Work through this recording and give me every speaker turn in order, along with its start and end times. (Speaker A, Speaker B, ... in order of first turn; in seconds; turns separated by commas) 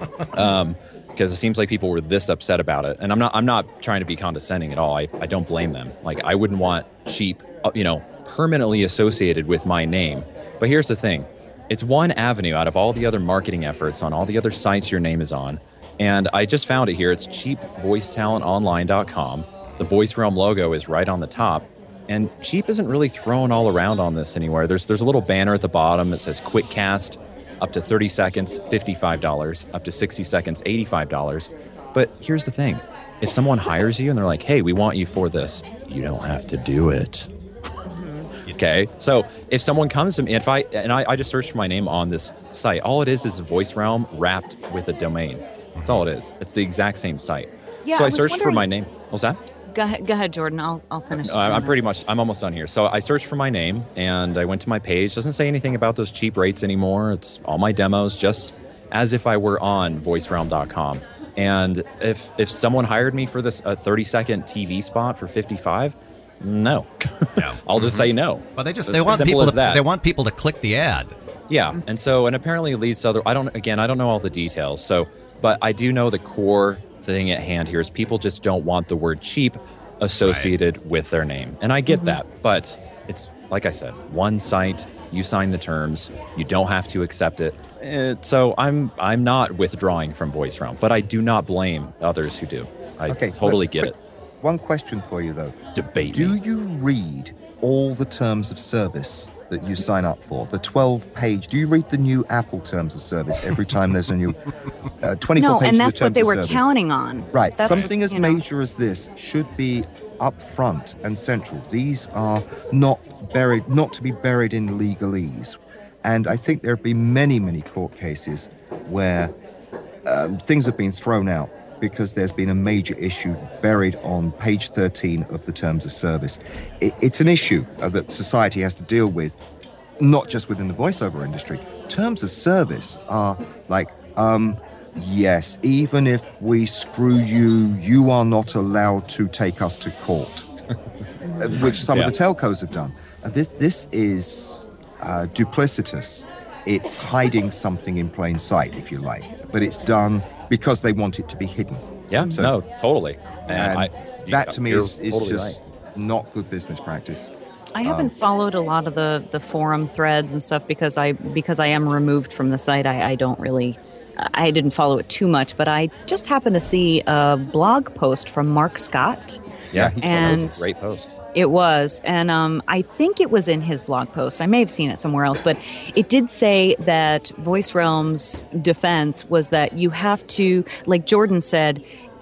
Speaker A: 0.3-37.3, Speaker B: 37.9-38.3, Speaker A: 38.5-49.4, Speaker C: 45.7-46.0, Speaker B: 47.9-48.7, Speaker B: 49.7-51.8, Speaker A: 51.1-69.8, Speaker C: 67.4-71.1, Speaker A: 71.5-94.0, Speaker C: 80.2-80.5, Speaker B: 81.9-82.2, Speaker D: 93.1-93.9, Speaker D: 94.4-104.4, Speaker A: 95.8-96.4, Speaker D: 105.0-106.7, Speaker B: 105.4-108.4, Speaker D: 107.3-119.3, Speaker D: 120.1-129.4, Speaker D: 130.0-140.4, Speaker B: 141.2-141.6, Speaker D: 141.4-152.6, Speaker A: 141.5-142.1, Speaker A: 152.1-155.6, Speaker D: 153.5-157.3, Speaker B: 157.8-169.4, Speaker D: 157.8-158.1, Speaker A: 169.7-171.1, Speaker B: 170.0-170.7, Speaker B: 171.3-181.8